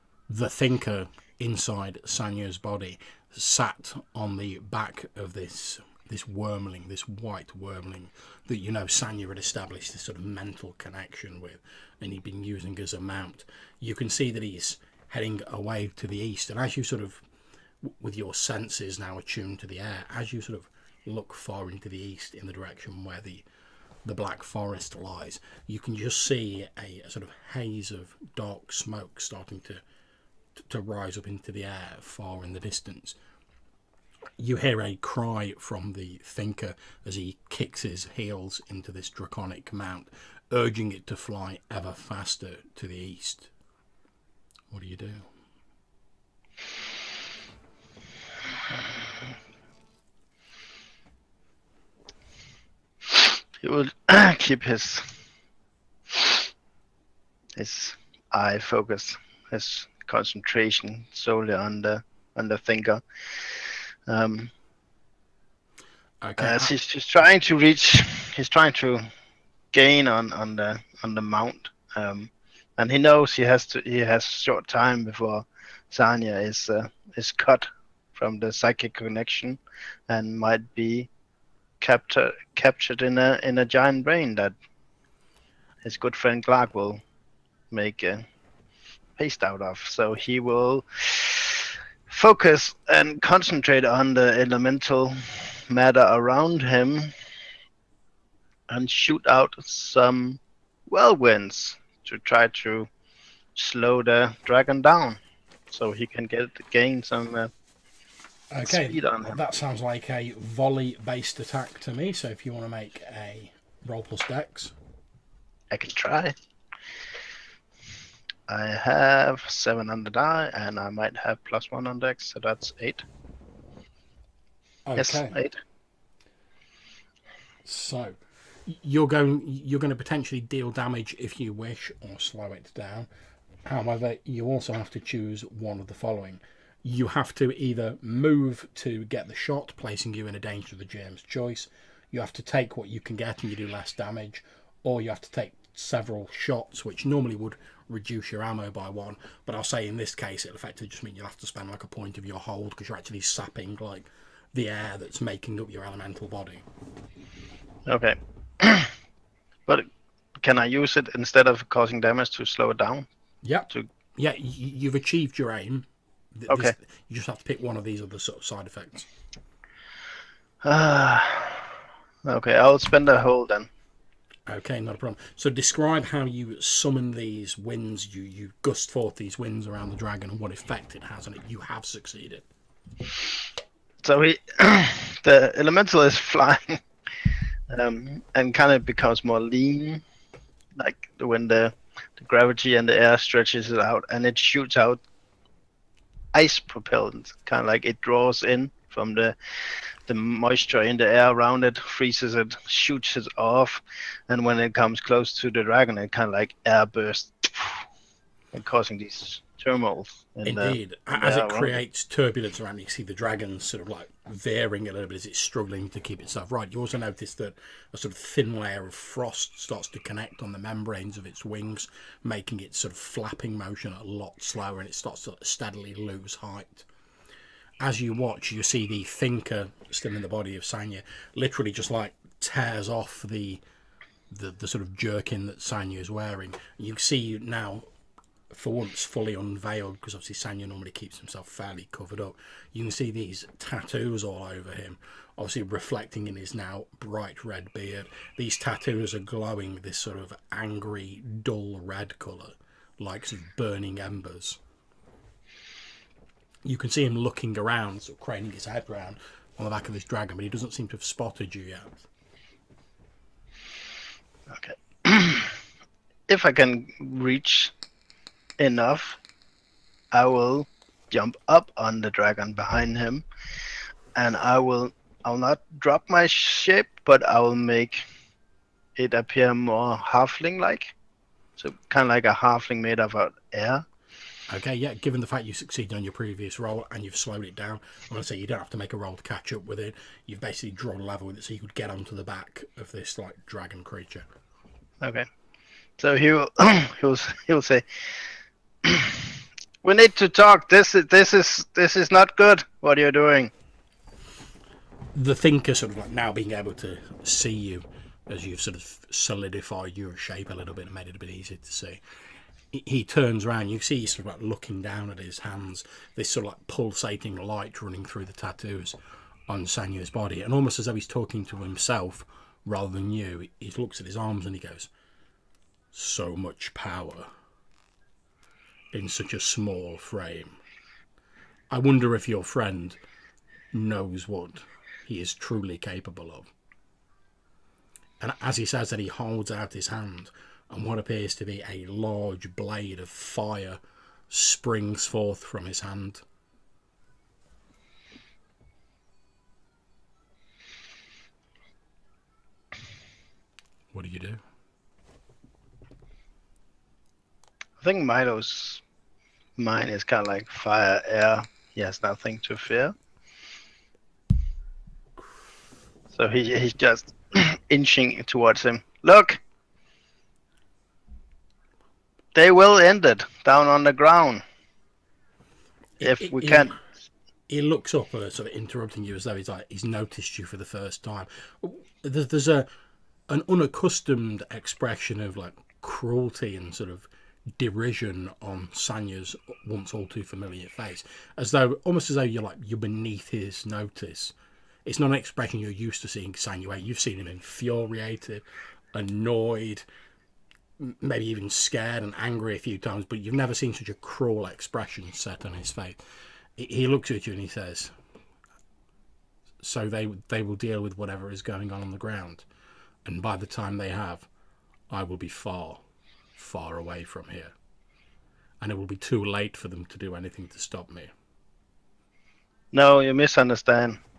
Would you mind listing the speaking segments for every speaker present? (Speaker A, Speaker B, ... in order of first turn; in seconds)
Speaker A: 0.3-17.2, 17.8-23.4, 24.0-29.8, 30.6-33.2, 34.4-43.5, 44.7-45.2, 66.2-66.7, 108.5-114.7, 124.8-125.4, 127.7-133.1, 133.7-156.6, 163.4-169.1, 174.5-182.4, 210.4-226.8, 227.8-233.6, 234.3-237.8, 238.5-254.6, 256.6-262.0, 284.5-294.3, 305.1-312.0, 312.7-318.9, 319.5-324.9, 325.9-327.3, 328.9-330.6, 331.7-333.0, 333.7-336.5, 338.2-343.8, 344.3-346.2, 353.9-354.4, 376.0-376.7, 377.5-382.7, 383.3-387.1, 387.6-394.3, 394.9-398.4, 398.9-399.8, 400.8-406.0, 406.6-407.9, 409.6-412.4, 413.1-414.3, 414.9-415.8, 416.4-417.5, 418.6-421.1
Speaker B: 53.6-55.1, 57.5-63.0, 64.1-64.5, 66.4-69.0, 69.7-81.1, 81.8-84.5, 85.8-87.0, 87.7-88.2, 89.2-97.1, 98.7-102.9, 103.5-105.2, 105.7-107.5, 108.6-109.4, 115.7-116.3, 118.5-123.0, 125.0-125.6, 157.9-158.9, 160.4-163.1, 166.5-166.7, 170.6-171.7, 172.2-173.7, 184.0-186.8, 187.7-190.0, 190.8-195.0, 196.3-207.8, 208.5-211.8, 264.5-265.6, 266.3-267.7, 268.6-269.2, 270.1-273.2, 274.1-278.0, 278.9-280.9, 281.6-283.8, 296.0-297.8, 298.8-299.3, 299.8-303.5, 357.8-358.8, 359.6-362.9, 366.1-369.4, 372.3-374.4, 376.0-376.8, 422.7-424.0